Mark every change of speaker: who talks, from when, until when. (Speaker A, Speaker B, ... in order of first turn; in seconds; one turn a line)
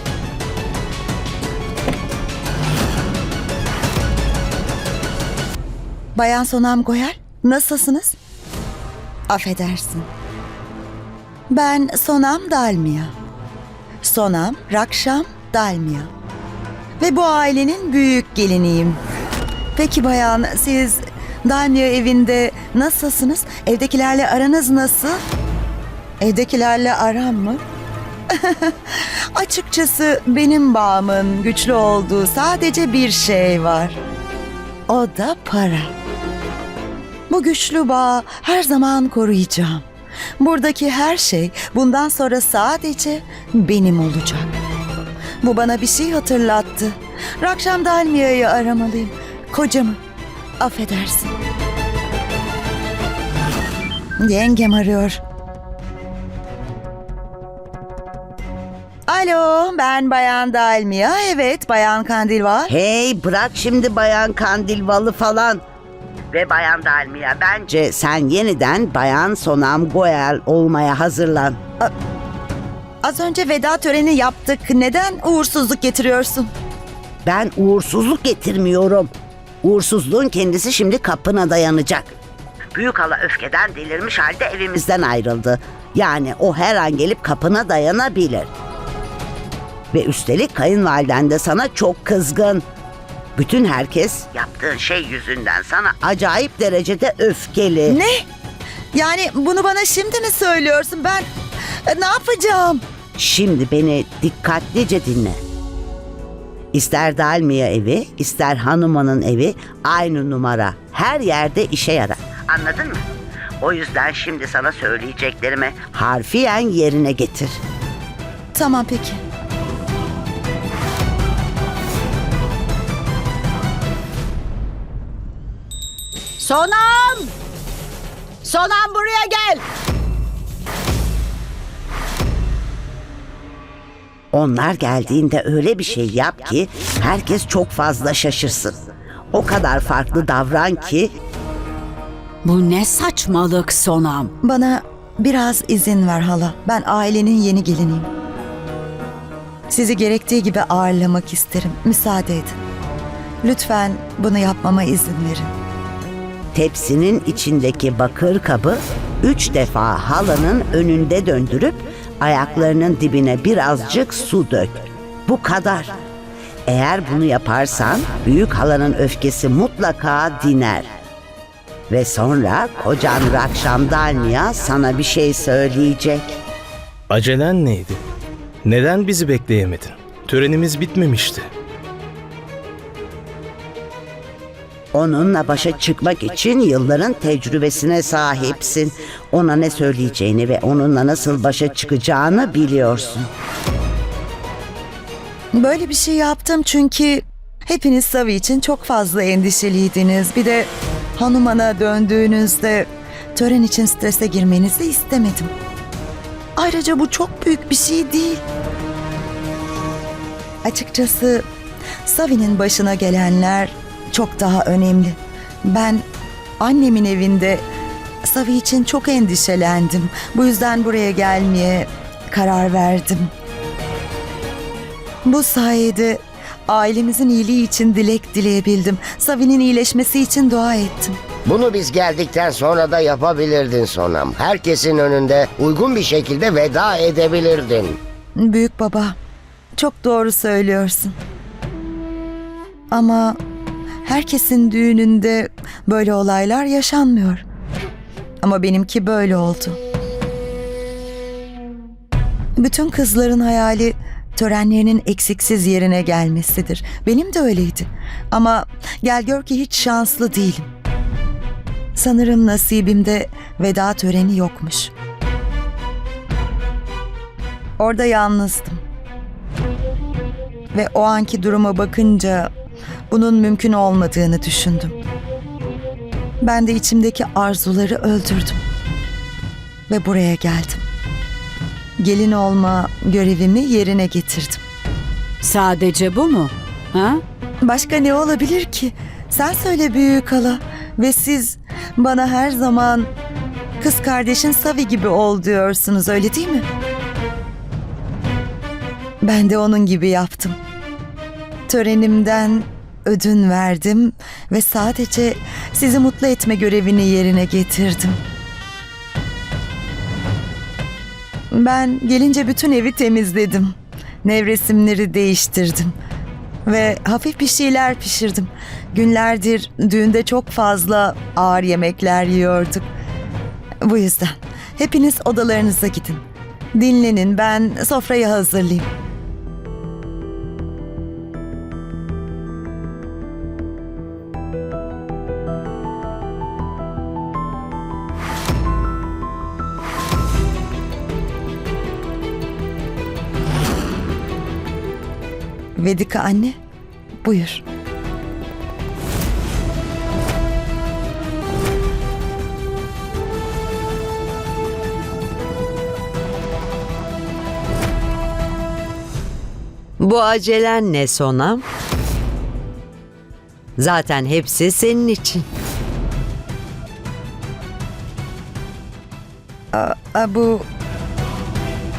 Speaker A: 6.2-8.2
Speaker A: 9.3-10.1
Speaker A: 11.5-13.1
Speaker A: 14.0-16.1
Speaker A: 17.0-19.0
Speaker A: 19.8-25.2
Speaker A: 26.2-27.6
Speaker A: 28.4-34.0
Speaker A: 34.9-35.9
Speaker A: 37.3-39.9
Speaker A: 40.4-44.5
Speaker A: 45.4-50.0
Speaker A: 50.6-51.3
Speaker A: 54.2-55.2
Speaker A: 59.1-62.7
Speaker B: 62.7-65.6
Speaker B: 66.3-71.6
Speaker A: 73.0-76.5
Speaker B: 77.2-79.1
Speaker B: 79.6-82.1
Speaker B: 82.7-88.5
Speaker B: 89.9-92.6
Speaker B: 93.4-98.0
Speaker A: 97.9-98.2
Speaker A: 98.9-101.3
Speaker A: 101.9-102.8
Speaker B: 103.2-105.4
Speaker B: 106.7-113.0
Speaker B: 113.6-117.6
Speaker A: 118.5-119.2
Speaker C: 126.4-127.3
Speaker C: 128.4-129.7
Speaker B: 134.3-138.8
Speaker B: 139.3-141.1
Speaker C: 142.4-144.3
Speaker A: 144.4-148.1
Speaker A: 149.7-152.6
Speaker A: 153.4-155.5
Speaker B: 156.5-165.9
Speaker B: 166.7-170.9
Speaker B: 171.9-176.4
Speaker D: 177.1-178.0
Speaker D: 178.7-181.5
Speaker B: 184.9-193.3
Speaker A: 195.5-205.5
Speaker A: 206.6-208.4
Speaker A: 210.6-211.4
Speaker A: 212.0-216.1
Speaker A: 216.6-217.7
Speaker A: 218.2-223.3
Speaker A: 225.2-231.2
Speaker E: 231.5-238.0
Speaker A: 238.4-239.2
Speaker A: 239.8-241.2
Speaker A: 242.9-243.4
Speaker A: 244.0-247.4
Speaker A: 248.4-249.8
Speaker A: 252.6-260.7
Speaker A: 261.9-264.9
Speaker A: 267.8-268.8
Speaker A: 270.7-272.5
Speaker A: 273.1-275.0
Speaker A: 276.4-278.6
Speaker A: 279.9-280.9
Speaker A: 282.0-284.6
Speaker C: 285.4-287.2
Speaker A: 287.6-293.1
Speaker A: 293.8-296.7
Speaker A: 299.2-300.6
Speaker A: 301.7-308.2
Speaker A: 311.5-315.9
Speaker A: 316.7-322.9
Speaker A: 323.8-328.9
Speaker A: 345.8-346.6
Speaker A: 347.2-347.6
Speaker F: 360.0-361.6
Speaker F: 363.8-365.4
Speaker A: 369.7-370.7